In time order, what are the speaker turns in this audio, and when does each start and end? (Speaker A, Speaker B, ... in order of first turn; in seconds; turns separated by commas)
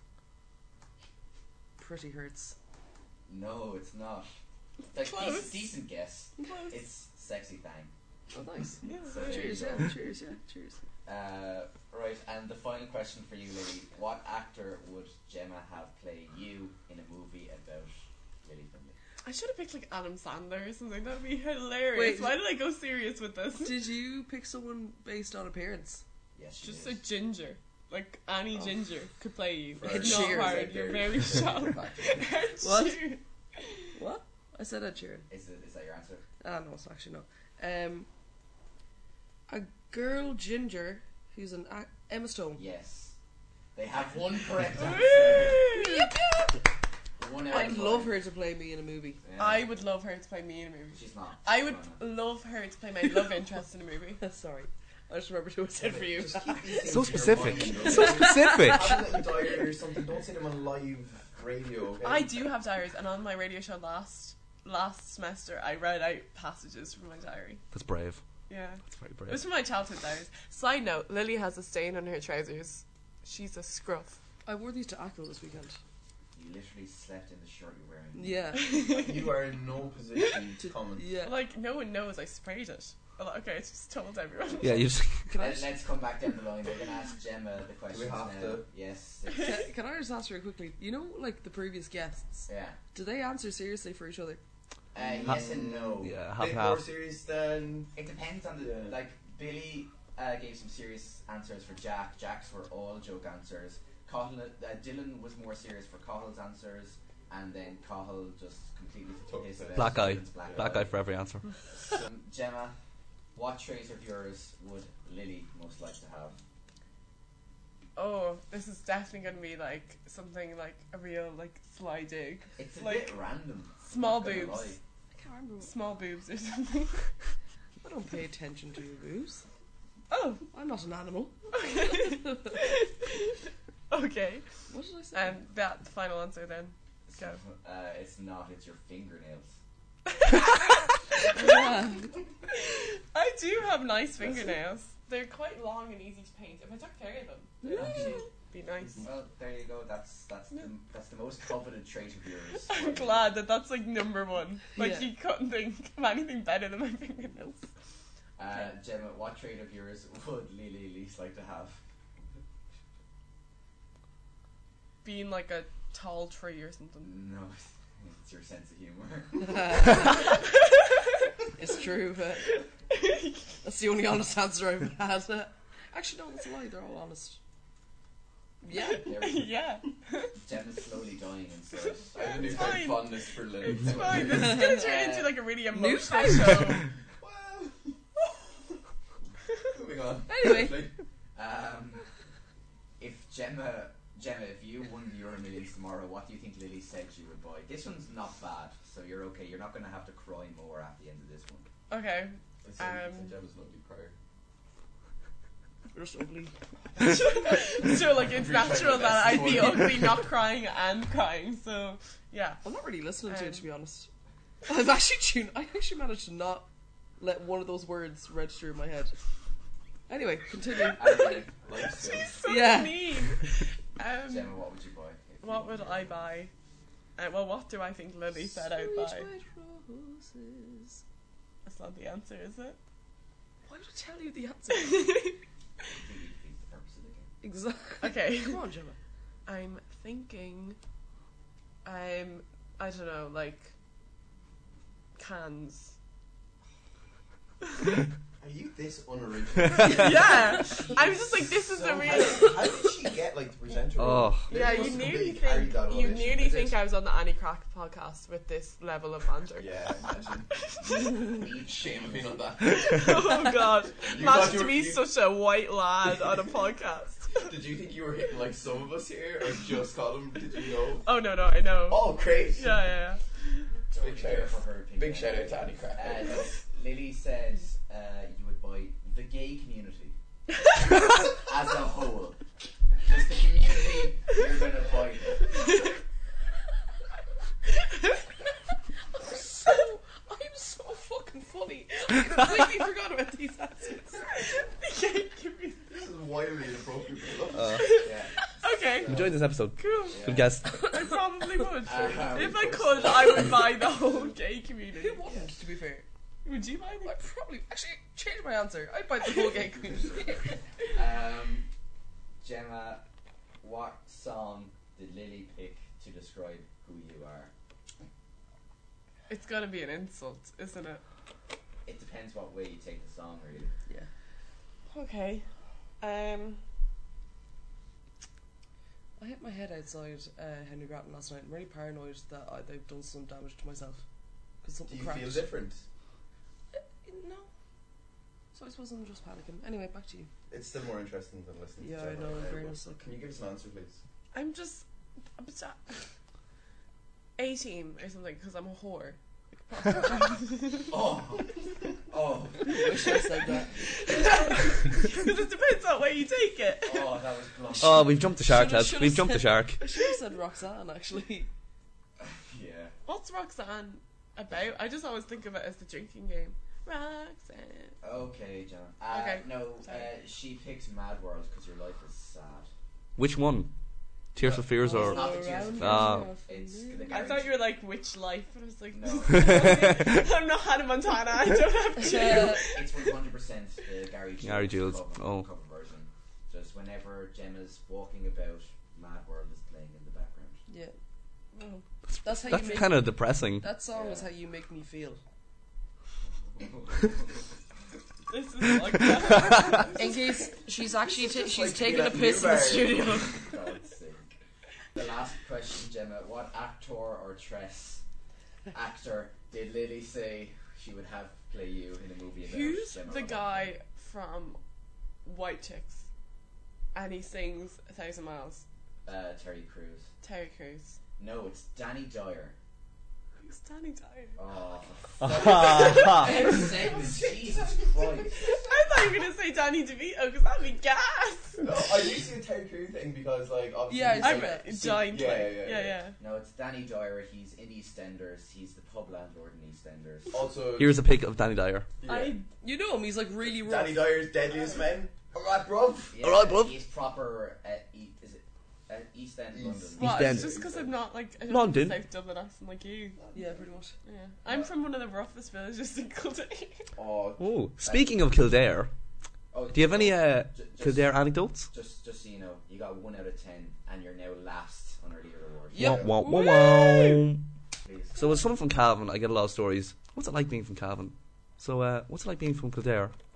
Speaker A: 1.8-2.6, Speaker B: 3.3-4.3, Speaker B: 4.9-7.9, Speaker C: 5.0-5.7, Speaker A: 6.4-6.7, Speaker A: 8.3-10.8, Speaker C: 8.8-9.6, Speaker B: 9.0-10.0, Speaker B: 11.1-19.0, Speaker C: 19.2-23.8, Speaker A: 21.9-22.4, Speaker A: 23.6-26.0, Speaker B: 26.4-27.0, Speaker C: 26.6-33.9, Speaker D: 29.8-32.3, Speaker A: 29.8-30.8, Speaker A: 32.6-33.2, Speaker A: 34.0-35.3, Speaker B: 35.3-36.2, Speaker A: 36.4-38.1, Speaker A: 39.5-42.6, Speaker B: 42.6-43.2, Speaker B: 43.8-45.8, Speaker C: 45.2-46.1, Speaker A: 45.7-46.2, Speaker B: 47.2-48.2, Speaker A: 47.5-49.2, Speaker B: 49.2-49.7, Speaker C: 49.4-54.2, Speaker B: 50.9-52.0, Speaker A: 54.2-56.9, Speaker C: 55.8-56.4, Speaker D: 56.2-62.3, Speaker E: 56.9-59.0, Speaker B: 57.2-58.2, Speaker A: 57.8-59.6, Speaker C: 62.0-67.6, Speaker E: 67.7-68.2, Speaker C: 68.5-74.2, Speaker E: 68.9-69.4, Speaker A: 74.5-75.8, Speaker B: 76.3-78.7, Speaker A: 78.1-78.8, Speaker C: 78.5-79.5, Speaker D: 78.9-81.1, Speaker A: 80.6-81.4, Speaker C: 81.2-84.9, Speaker E: 84.6-85.3, Speaker A: 85.3-85.7, Speaker B: 85.4-89.6, Speaker D: 87.9-88.7, Speaker A: 89.4-94.4, Speaker B: 92.5-92.8, Speaker B: 94.9-96.1, Speaker D: 95.0-97.9, Speaker E: 96.0-96.9, Speaker B: 98.0-111.0, Speaker D: 98.6-99.0, Speaker D: 109.3-110.8, Speaker E: 109.8-111.5, Speaker B: 111.7-112.8, Speaker B: 113.3-116.4, Speaker C: 118.0-123.2, Speaker B: 122.6-124.8, Speaker C: 123.9-124.8, Speaker A: 125.1-125.8, Speaker C: 125.6-127.1, Speaker A: 127.8-129.4, Speaker C: 130.1-130.4, Speaker A: 130.5-132.6, Speaker C: 131.5-133.4, Speaker C: 133.9-134.4, Speaker A: 134.7-135.4, Speaker C: 135.1-137.4, Speaker B: 137.1-139.6, Speaker C: 140.1-141.9, Speaker A: 141.3-142.2, Speaker C: 142.5-149.1, Speaker A: 147.6-148.2, Speaker B: 147.8-148.1, Speaker B: 149.0-153.3, Speaker C: 152.7-157.5, Speaker A: 154.8-155.1, Speaker A: 157.3-157.6, Speaker B: 158.4-161.8, Speaker C: 165.0-167.1, Speaker B: 167.0-170.1, Speaker A: 169.4-170.3, Speaker C: 170.1-171.1, Speaker A: 171.6-172.6, Speaker C: 172.6-173.4, Speaker A: 173.6-177.4, Speaker A: 178.6-179.1, Speaker C: 178.8-180.4, Speaker B: 179.0-179.5, Speaker B: 180.4-182.9, Speaker D: 182.1-184.6, Speaker C: 182.2-186.9, Speaker B: 184.1-185.3, Speaker A: 184.3-185.2, Speaker A: 185.7-186.8, Speaker D: 187.2-188.0, Speaker D: 189.7-190.9, Speaker A: 190.3-190.8, Speaker B: 191.3-192.1, Speaker B: 193.0-201.7, Speaker C: 201.9-203.3, Speaker D: 202.6-204.1, Speaker A: 205.9-206.5, Speaker C: 207.0-212.6, Speaker D: 207.5-210.2, Speaker A: 212.6-214.1, Speaker C: 213.3-213.7, Speaker A: 214.7-216.7, Speaker A: 217.2-219.1, Speaker A: 220.1-221.4, Speaker B: 220.8-221.7, Speaker D: 221.6-222.4, Speaker C: 222.0-224.6, Speaker A: 222.4-223.2, Speaker B: 224.2-226.2, Speaker C: 225.4-226.5, Speaker C: 227.2-229.3, Speaker A: 228.5-231.0, Speaker C: 231.7-232.8, Speaker A: 233.7-235.3, Speaker C: 234.7-235.4, Speaker B: 235.9-237.3, Speaker A: 237.4-239.0, Speaker C: 238.0-238.6, Speaker C: 239.5-240.8, Speaker C: 241.8-243.7, Speaker C: 245.2-245.9, Speaker D: 248.4-256.8, Speaker C: 249.8-252.8, Speaker A: 249.9-250.9, Speaker B: 250.6-251.1, Speaker E: 254.0-254.5, Speaker C: 254.5-259.9, Speaker D: 259.6-263.2, Speaker C: 260.6-261.2, Speaker B: 260.8-262.3, Speaker C: 262.7-267.4, Speaker B: 264.0-264.6, Speaker D: 264.1-265.1, Speaker D: 267.4-271.1, Speaker C: 271.0-273.7, Speaker D: 271.9-272.9, Speaker B: 273.9-280.2, Speaker D: 273.9-276.6, Speaker B: 281.3-282.4, Speaker B: 283.0-285.6, Speaker A: 289.1-294.4, Speaker C: 294.3-295.9, Speaker D: 295.9-297.9, Speaker E: 297.5-297.9, Speaker C: 297.8-298.1, Speaker B: 298.0-299.4, Speaker C: 298.6-299.2, Speaker E: 299.1-300.9, Speaker C: 299.8-300.2, Speaker B: 300.1-300.6, Speaker C: 300.8-305.2, Speaker B: 301.8-303.7, Speaker D: 302.1-303.5, Speaker A: 304.9-306.1, Speaker C: 306.4-307.1, Speaker A: 307.0-310.6, Speaker B: 310.9-311.7, Speaker B: 312.4-313.0, Speaker B: 313.6-317.5, Speaker C: 319.3-321.0, Speaker B: 321.9-323.7, Speaker C: 324.9-325.5, Speaker C: 326.0-326.6, Speaker A: 329.2-334.0, Speaker A: 334.6-335.5, Speaker D: 334.9-335.8, Speaker A: 336.7-337.5, Speaker A: 338.5-340.3, Speaker D: 340.5-344.0, Speaker A: 341.8-343.1, Speaker C: 344.3-344.9, Speaker C: 345.4-346.0, Speaker C: 347.4-350.9, Speaker B: 350.9-351.6, Speaker B: 352.1-353.2, Speaker A: 352.7-353.8, Speaker C: 352.7-357.2, Speaker B: 356.8-358.3, Speaker E: 357.8-359.8, Speaker A: 358.4-361.5, Speaker B: 362.2-362.9, Speaker C: 363.1-368.0, Speaker B: 368.0-372.7, Speaker C: 369.1-370.1, Speaker E: 373.2-373.7, Speaker E: 374.3-376.3, Speaker D: 374.4-374.6, Speaker A: 374.8-377.2, Speaker B: 374.8-377.6, Speaker C: 377.1-383.1, Speaker B: 378.9-379.7, Speaker E: 379.3-380.2, Speaker A: 382.0-382.7, Speaker B: 382.2-390.6, Speaker E: 384.4-385.5, Speaker A: 390.7-390.9, Speaker C: 391.6-391.8, Speaker E: 392.1-393.7, Speaker A: 392.2-395.2, Speaker B: 393.9-394.3, Speaker B: 396.6-397.2, Speaker C: 398.3-400.0, Speaker D: 399.8-400.1, Speaker A: 399.9-403.4, Speaker D: 401.0-403.3, Speaker B: 403.1-404.3, Speaker B: 404.9-408.0, Speaker B: 408.7-413.7, Speaker C: 412.4-414.6, Speaker C: 415.2-416.1, Speaker C: 416.9-418.6, Speaker B: 419.1-420.1, Speaker C: 420.2-421.0, Speaker B: 421.2-422.6, Speaker C: 423.4-424.4, Speaker B: 424.4-428.4, Speaker E: 425.2-426.2, Speaker C: 425.6-426.6, Speaker D: 426.0-428.7, Speaker C: 428.4-431.6, Speaker D: 431.6-436.0, Speaker A: 433.9-434.6, Speaker C: 434.2-436.2, Speaker B: 436.2-440.4, Speaker D: 440.3-441.0, Speaker E: 440.8-441.9, Speaker D: 442.0-442.4, Speaker C: 442.1-442.5, Speaker A: 442.6-444.2, Speaker D: 443.4-446.2, Speaker B: 446.1-450.3, Speaker E: 446.2-446.7, Speaker D: 449.5-451.0, Speaker C: 450.0-453.2, Speaker E: 450.0-450.6, Speaker E: 451.5-452.0, Speaker D: 453.2-453.7, Speaker A: 453.3-453.9, Speaker C: 454.1-456.9, Speaker D: 457.0-457.5, Speaker E: 457.4-458.9, Speaker B: 459.5-465.9, Speaker E: 459.7-461.7, Speaker A: 465.7-467.2, Speaker E: 465.8-467.4, Speaker D: 465.8-466.1, Speaker C: 466.4-467.0, Speaker B: 467.8-468.4, Speaker E: 468.2-473.1